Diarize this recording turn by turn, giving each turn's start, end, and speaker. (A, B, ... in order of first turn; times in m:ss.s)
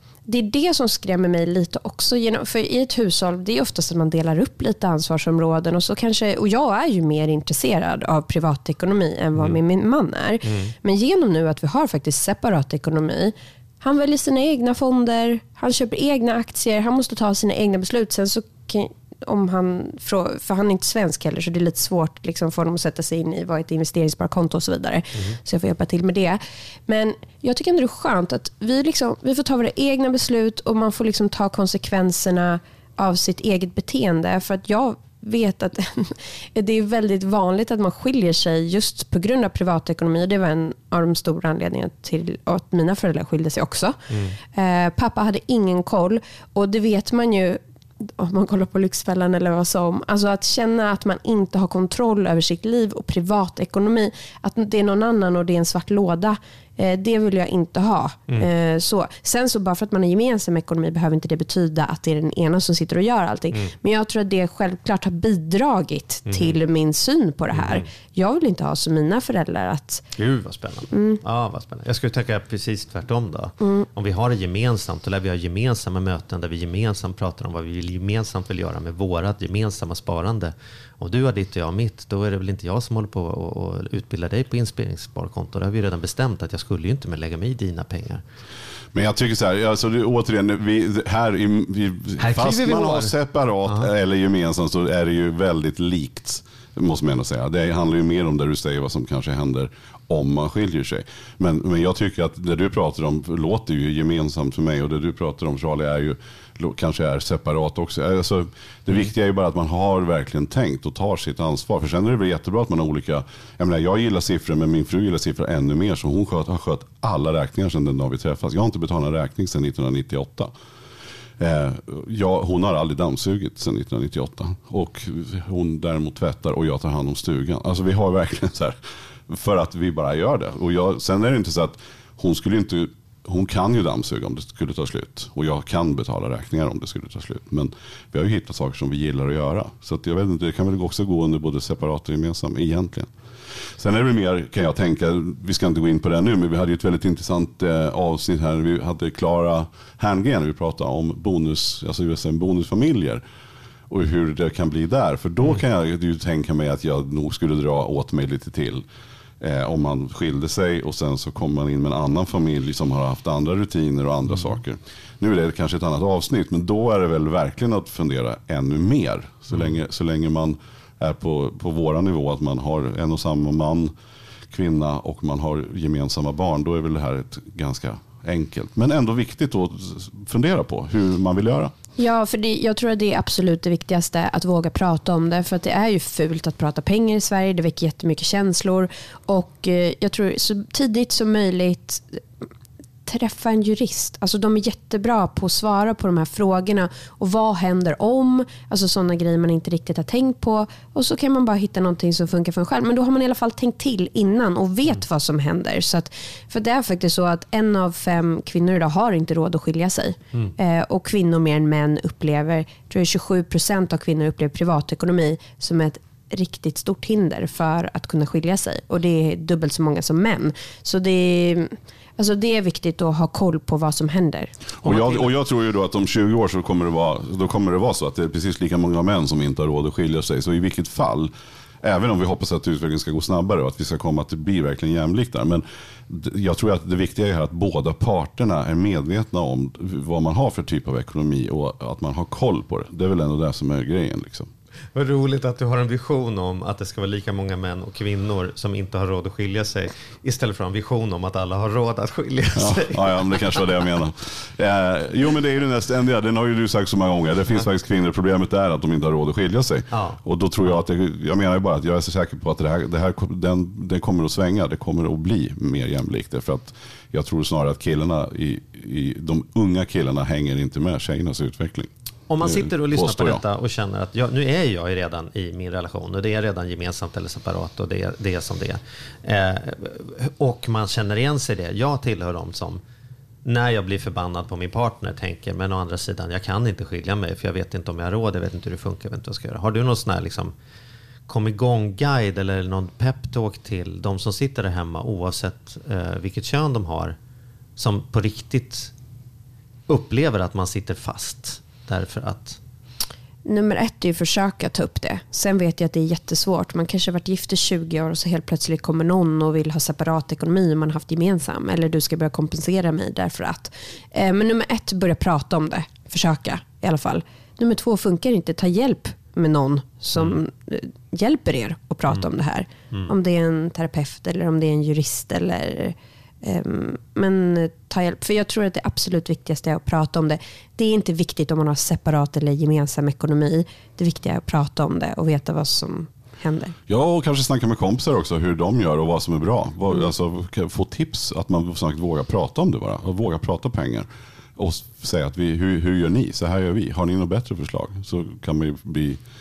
0:00.3-1:10.0 A
0:10.4-0:10.7 B
1:06.3-1:06.6 B
1:07.6-1:07.8 B
1:10.2-1:28.2 B
1:10.9-1:11.2 A
1:13.6-1:13.9 A
1:28.9-2:00.5 C
1:32.2-1:33.1 B
2:01.4-2:08.8 C
2:09.3-2:23.1 C
2:23.7-2:33.2 C
2:33.9-2:38.9 C
2:39.4-2:53.9 C
2:54.5-3:01.7 C
3:02.0-3:12.2 A
3:13.1-3:44.5 A
3:44.8-4:04.5 C
3:44.8-3:45.3 B
4:05.0-4:13.6 B
4:12.6-4:31.9 C
4:19.9-4:20.8 B
4:32.3-4:42.8 B
4:32.4-4:33.4 C
4:43.4-4:50.5 B
4:51.3-4:57.2 B
4:57.8-4:58.9 B
4:59.9-5:02.6 B
5:03.5-5:36.8 A
5:36.9-5:49.2 C